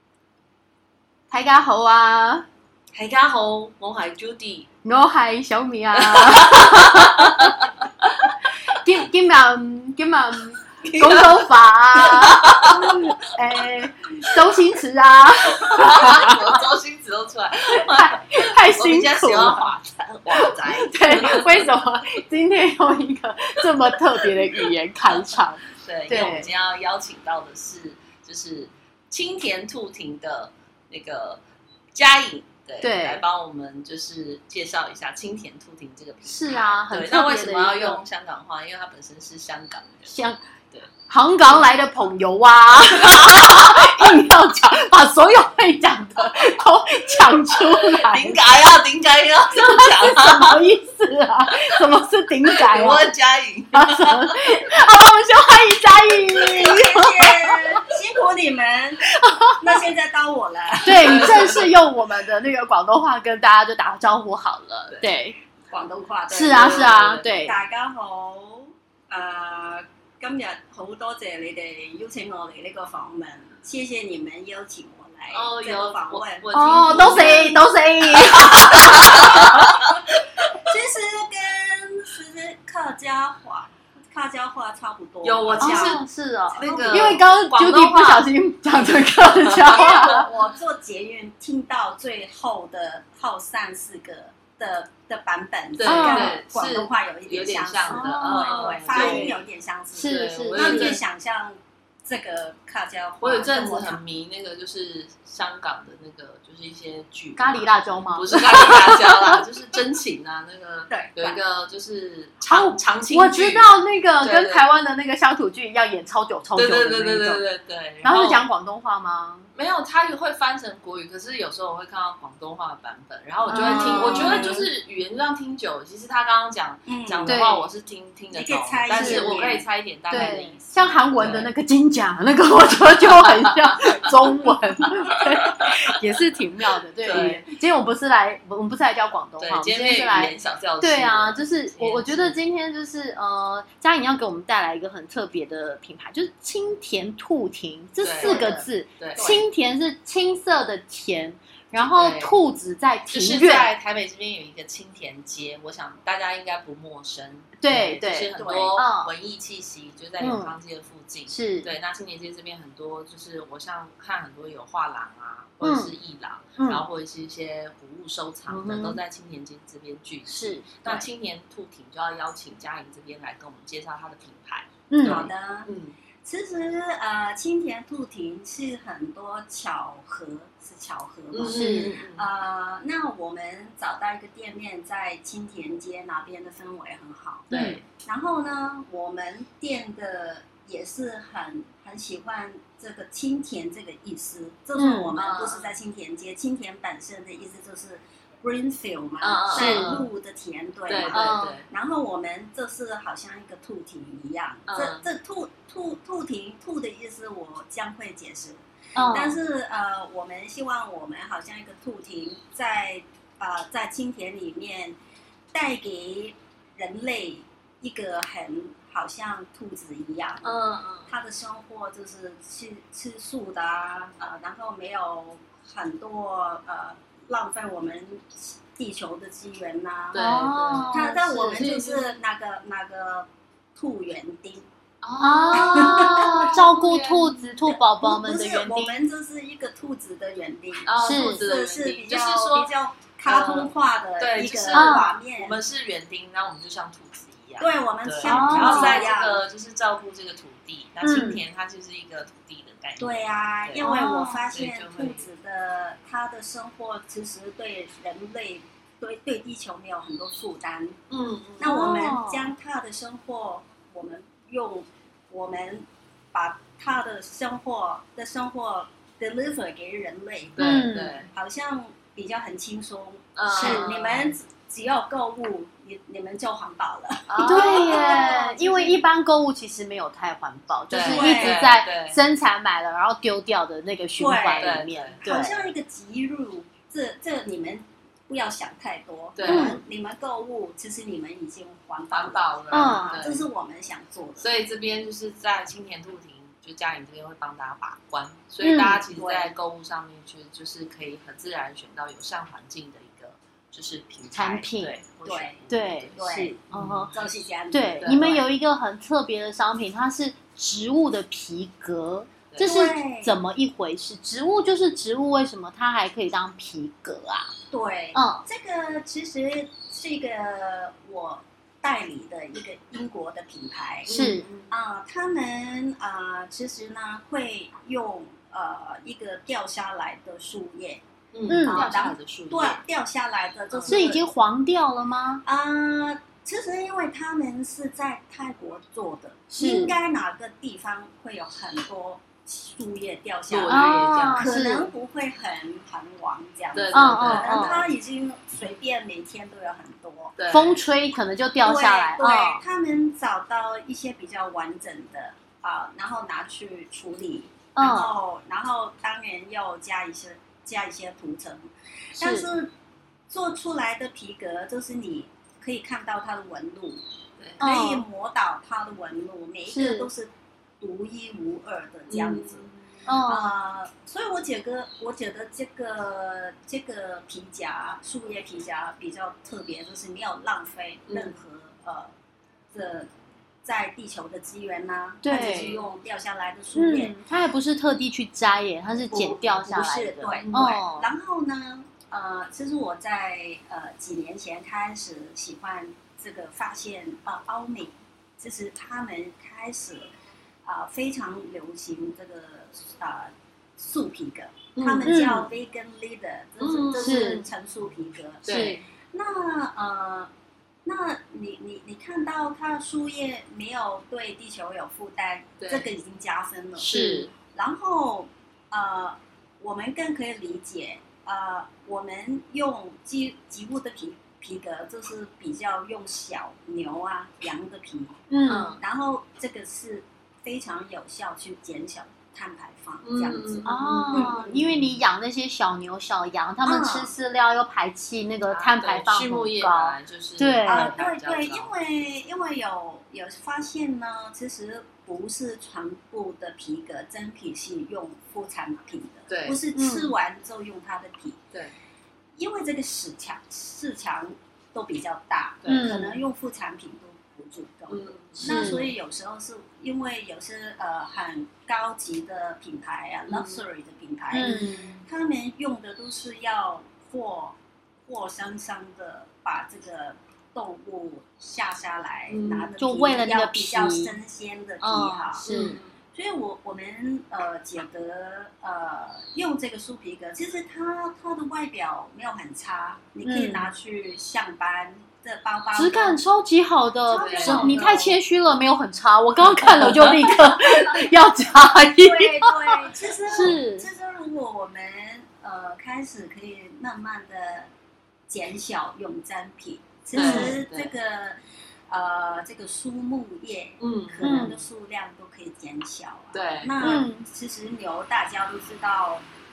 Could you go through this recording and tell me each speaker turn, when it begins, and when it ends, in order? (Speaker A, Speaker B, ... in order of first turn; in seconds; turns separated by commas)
Speaker A: 1.3-2.5, Speaker B: 2.9-4.7, Speaker A: 4.8-7.5, Speaker B: 6.0-7.5, Speaker A: 8.7-16.6, Speaker B: 10.8-11.4, Speaker B: 12.0-12.8, Speaker B: 15.6-21.7, Speaker A: 17.8-19.7, Speaker A: 20.3-26.5, Speaker B: 25.1-31.4, Speaker B: 31.9-40.1, Speaker A: 32.8-33.2, Speaker A: 36.2-38.0, Speaker A: 40.0-40.4, Speaker A: 41.1-48.5, Speaker B: 42.7-44.1, Speaker B: 47.6-50.6, Speaker A: 49.5-53.1, Speaker B: 52.5-54.5, Speaker A: 53.7-57.7, Speaker C: 56.4-61.6, Speaker A: 59.1-59.6, Speaker A: 60.8-65.4, Speaker B: 61.0-61.7, Speaker C: 65.7-77.6, Speaker A: 66.3-67.6, Speaker B: 66.4-67.5, Speaker B: 75.3-77.6, Speaker A: 76.5-79.7, Speaker C: 78.2-79.9, Speaker B: 78.2-79.9, Speaker C: 80.6-86.0, Speaker B: 85.2-88.3, Speaker A: 85.6-90.3, Speaker C: 86.5-87.2, Speaker B: 89.3-90.1, Speaker C: 89.7-104.0, Speaker B: 95.8-99.4, Speaker A: 95.8-96.4, Speaker A: 97.9-99.4, Speaker A: 99.9-101.0, Speaker B: 100.0-101.0, Speaker B: 103.2-114.6, Speaker A: 107.3-109.4, Speaker C: 110.9-111.4, Speaker A: 112.5-117.4, Speaker B: 116.5-118.4, Speaker A: 118.0-119.5, Speaker B: 119.5-131.5, Speaker A: 123.5-124.6, Speaker C: 123.5-124.7, Speaker C: 126.8-127.4, Speaker A: 127.2-127.7, Speaker C: 128.3-130.4, Speaker A: 128.9-129.4, Speaker A: 130.1-153.7, Speaker B: 133.0-134.2, Speaker B: 137.0-137.4, Speaker B: 139.4-142.4, Speaker B: 148.0-149.3, Speaker C: 148.1-149.5, Speaker B: 151.8-152.3, Speaker B: 153.1-175.9, Speaker A: 157.6-159.1, Speaker C: 158.3-158.8, Speaker A: 160.2-160.5, Speaker A: 161.3-161.7, Speaker A: 165.6-165.9, Speaker A: 166.6-166.8, Speaker A: 168.5-169.0, Speaker A: 170.2-170.7, Speaker C: 170.8-171.1, Speaker A: 174.9-175.3, Speaker C: 175.0-175.7, Speaker C: 176.2-215.0, Speaker B: 181.3-182.3, Speaker A: 181.5-181.9, Speaker A: 187.5-187.8, Speaker B: 187.5-187.8, Speaker A: 194.8-195.2, Speaker B: 195.2-195.7, Speaker B: 199.2-200.1, Speaker A: 199.5-199.9, Speaker B: 200.9-201.7, Speaker A: 201.1-201.6, Speaker B: 204.7-205.0, Speaker A: 208.9-209.4, Speaker C: 215.5-220.5, Speaker B: 220.4-221.1, Speaker C: 221.1-230.2, Speaker B: 230.1-232.2, Speaker A: 230.1-231.6, Speaker C: 230.9-234.7, Speaker B: 235.0-237.5, Speaker A: 235.2-238.9, Speaker C: 235.5-236.6, Speaker C: 237.7-245.6, Speaker B: 240.9-242.7, Speaker A: 241.0-241.4, Speaker B: 243.2-253.8, Speaker A: 244.7-245.1, Speaker C: 247.6-249.4, Speaker A: 248.2-249.1, Speaker A: 251.0-251.4, Speaker C: 253.0-261.0, Speaker A: 253.8-254.4, Speaker B: 254.5-255.2, Speaker B: 261.1-262.0, Speaker C: 261.6-279.0, Speaker A: 261.6-262.5, Speaker B: 270.6-271.3, Speaker A: 270.6-271.2, Speaker B: 273.4-274.4, Speaker A: 273.6-273.9, Speaker B: 277.3-278.4, Speaker A: 277.4-285.5, Speaker B: 280.9-282.2, Speaker C: 280.9-281.7, Speaker C: 284.2-294.5, Speaker B: 284.6-285.4, Speaker B: 289.4-289.8, Speaker A: 289.4-289.8, Speaker B: 292.1-293.4, Speaker A: 292.7-293.2, Speaker B: 294.4-306.1, Speaker A: 298.6-299.0, Speaker C: 299.1-299.5, Speaker A: 304.3-304.9, Speaker C: 305.2-308.4, Speaker A: 305.7-307.1, Speaker B: 306.7-307.2, Speaker A: 307.7-317.5, Speaker B: 308.0-308.3, Speaker B: 312.5-312.8, Speaker C: 312.6-313.4, Speaker C: 317.7-331.0, Speaker A: 318.1-318.4, Speaker B: 324.0-324.7, Speaker A: 324.1-324.5, Speaker B: 331.3-332.8, Speaker A: 331.5-331.9, Speaker C: 331.6-334.2, Speaker B: 333.7-334.0, Speaker A: 333.9-335.4, Speaker C: 335.4-350.3, Speaker A: 339.5-339.9, Speaker B: 343.5-344.5, Speaker A: 343.7-344.9, Speaker B: 346.7-347.9, Speaker A: 346.9-347.8, Speaker B: 350.4-350.8, Speaker A: 350.5-352.6, Speaker C: 351.6-362.7, Speaker A: 357.8-358.1, Speaker A: 362.2-362.5, Speaker C: 363.3-367.0, Speaker A: 367.6-368.0, Speaker C: 367.6-372.7, Speaker A: 369.7-370.1, Speaker B: 372.1-372.7, Speaker A: 373.1-373.5, Speaker C: 373.2-382.1, Speaker B: 381.1-381.4, Speaker C: 382.7-383.1, Speaker C: 383.6-387.2, Speaker A: 385.2-385.7, Speaker B: 385.3-385.9, Speaker A: 386.7-391.1, Speaker C: 389.1-400.1, Speaker B: 390.3-390.8, Speaker C: 400.6-410.3, Speaker B: 404.8-405.1, Speaker A: 405.0-405.5, Speaker B: 406.6-407.5, Speaker A: 407.0-407.4, Speaker B: 408.4-408.8, Speaker A: 408.5-408.8, Speaker C: 410.8-416.9, Speaker B: 415.6-415.9, Speaker B: 416.8-417.3, Speaker A: 416.9-417.3, Speaker C: 417.5-434.7, Speaker A: 428.3-428.8, Speaker B: 428.4-428.8, Speaker B: 433.0-434.6, Speaker A: 433.6-441.0, Speaker C: 436.6-437.1, Speaker B: 438.5-441.7, Speaker C: 440.6-451.4, Speaker B: 449.3-449.6, Speaker A: 449.7-450.1, Speaker C: 452.4-475.5, Speaker B: 455.6-456.0, Speaker A: 455.6-456.2, Speaker B: 457.9-458.8, Speaker A: 458.4-458.9, Speaker B: 463.3-463.6, Speaker A: 464.3-465.0, Speaker B: 472.3-472.7, Speaker A: 472.8-474.1, Speaker A: 474.8-475.8, Speaker B: 475.4-475.9, Speaker C: 476.1-486.2, Speaker A: 483.2-483.7, Speaker A: 485.7-493.9, Speaker C: 487.1-488.2, Speaker B: 487.1-487.8, Speaker B: 489.6-490.3, Speaker C: 491.9-497.7, Speaker C: 498.3-509.2, Speaker B: 500.1-500.9, Speaker A: 500.1-500.6, Speaker B: 503.8-504.5, Speaker A: 504.2-504.6, Speaker B: 506.3-507.0, Speaker A: 506.8-507.2